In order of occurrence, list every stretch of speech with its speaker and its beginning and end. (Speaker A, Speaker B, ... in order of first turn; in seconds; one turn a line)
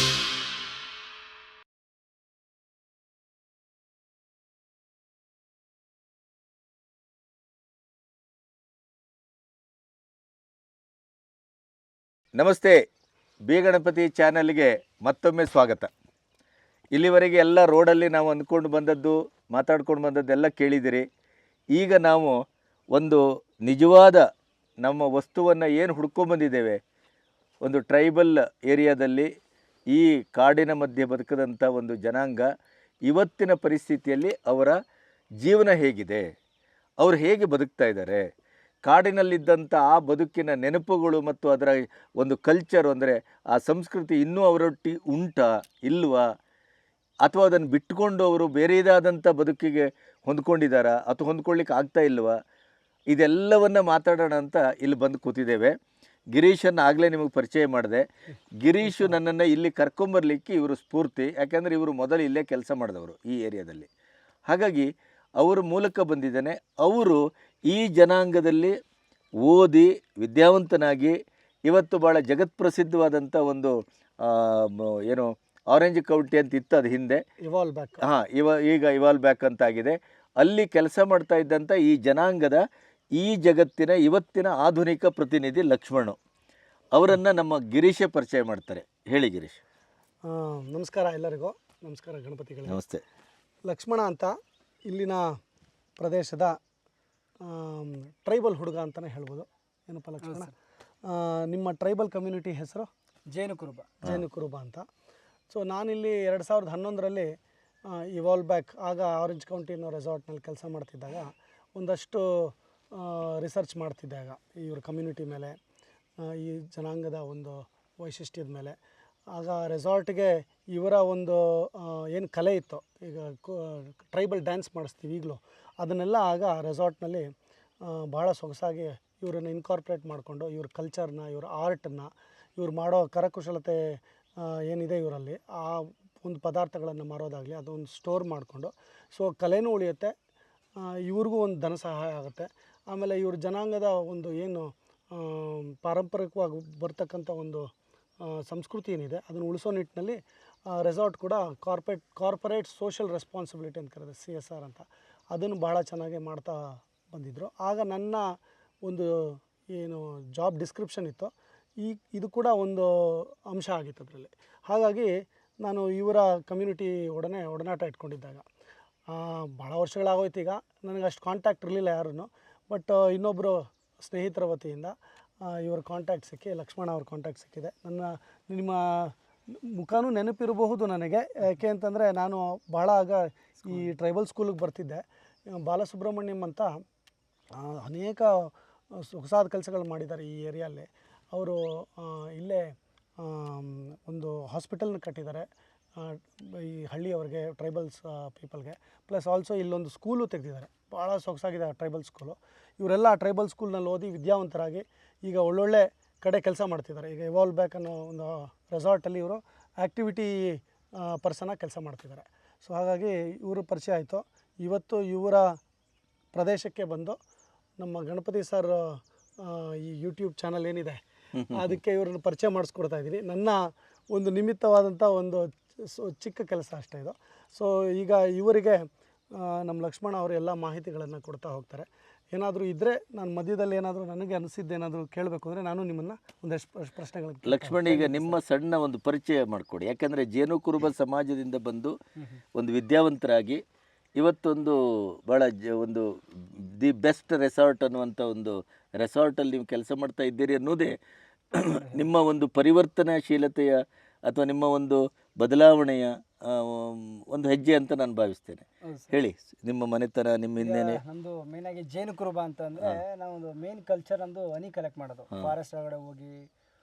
Speaker A: 12.4-12.8
Speaker A: 13.5-15.9
Speaker A: 16.9-21.0
Speaker A: 21.7-22.3
Speaker A: 22.9-24.2
Speaker A: 24.8-26.8
Speaker A: 27.6-29.3
Speaker A: 29.9-32.5
Speaker A: 33.1-34.7
Speaker A: 35.4-36.2
Speaker A: 37.0-38.2
Speaker A: 38.9-46.2
Speaker A: 47.2-52.3
Speaker A: 53.1-55.7
Speaker A: 56.3-58.0
Speaker A: 58.6-63.9
Speaker A: 64.5-68.7
Speaker A: 69.4-77.2
Speaker B: 77.4-78.0
Speaker A: 78.0-82.6
Speaker A: 83.2-86.2
Speaker A: 86.9-89.6
Speaker B: 90.2-92.8
Speaker A: 92.7-93.0
Speaker B: 93.6-94.4
Speaker B: 94.9-95.3
Speaker B: 96.0-96.6
Speaker B: 97.4-100.5
Speaker C: 100.2-100.5
Speaker B: 101.1-102.9
Speaker C: 103.3-103.9
Speaker B: 104.0-104.9
Speaker B: 105.5-107.3
Speaker B: 107.9-115.6
Speaker B: 116.2-118.8
Speaker B: 119.3-127.3
Speaker B: 127.8-140.1
Speaker B: 140.8-147.7
Speaker B: 148.2-168.4
Speaker B: 169.1-186.7
Speaker B: 187.6-215.6
Speaker B: 216.3-217.2
Speaker B: 217.8-238.4
Speaker A: 221.4-221.8
Speaker A: 237.4-241.9
Speaker C: 242.2-242.4
Speaker A: 242.6-243.6
Speaker A: 244.2-250.9
Speaker A: 251.6-261.0
Speaker C: 251.7-252.1
Speaker C: 258.9-259.1
Speaker C: 260.6-266.4